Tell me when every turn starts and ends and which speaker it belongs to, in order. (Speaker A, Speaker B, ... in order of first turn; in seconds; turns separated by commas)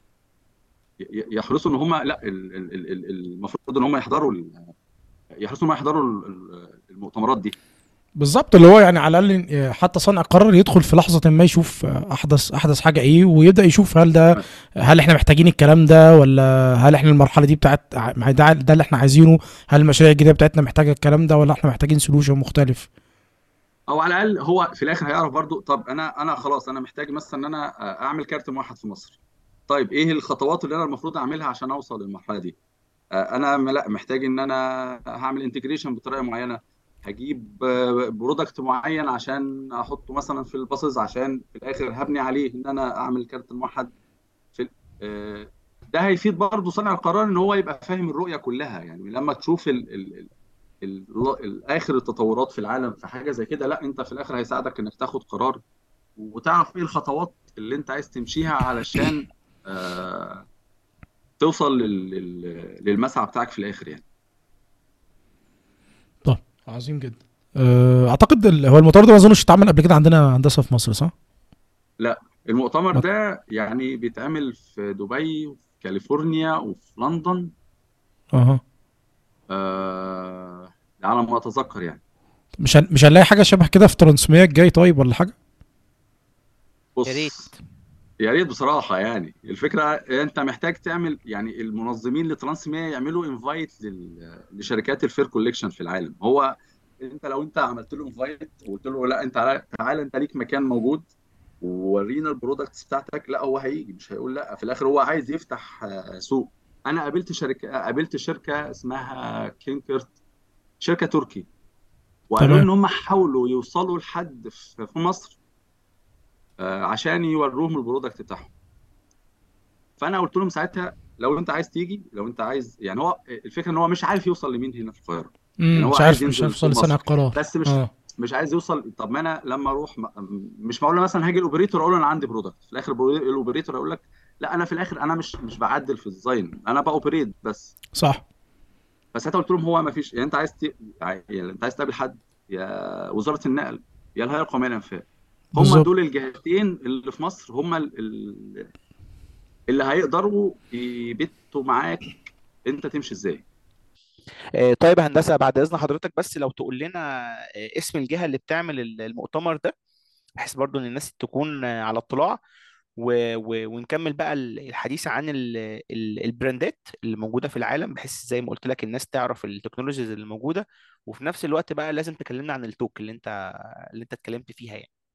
Speaker A: 1.0-4.7, Speaker A: 5.4-7.5, Speaker B: 8.2-22.9, Speaker A: 23.9-29.2, Speaker A: 29.7-32.5, Speaker A: 33.1-43.9, Speaker A: 44.5-50.3, Speaker A: 50.8-55.6, Speaker A: 56.2-60.5, Speaker A: 61.4-64.0, Speaker B: 66.2-71.1, Speaker A: 72.0-77.5, Speaker B: 78.3-78.6, Speaker A: 79.5-82.0, Speaker B: 82.6-85.3, Speaker A: 87.0-87.4, Speaker C: 87.0-87.5, Speaker A: 88.2-101.1, Speaker A: 101.6-110.1, Speaker A: 110.8-111.5, Speaker A: 112.3-115.4, Speaker B: 112.4-112.7, Speaker A: 116.6-118.5, Speaker A: 120.0-137.7, Speaker B: 125.6-127.9, Speaker B: 137.9-138.2, Speaker A: 139.1-148.7, Speaker B: 145.5-145.9, Speaker A: 149.7-153.4, Speaker C: 154.5-159.7, Speaker C: 160.4-162.4, Speaker C: 163.0-173.3, Speaker C: 173.9-174.9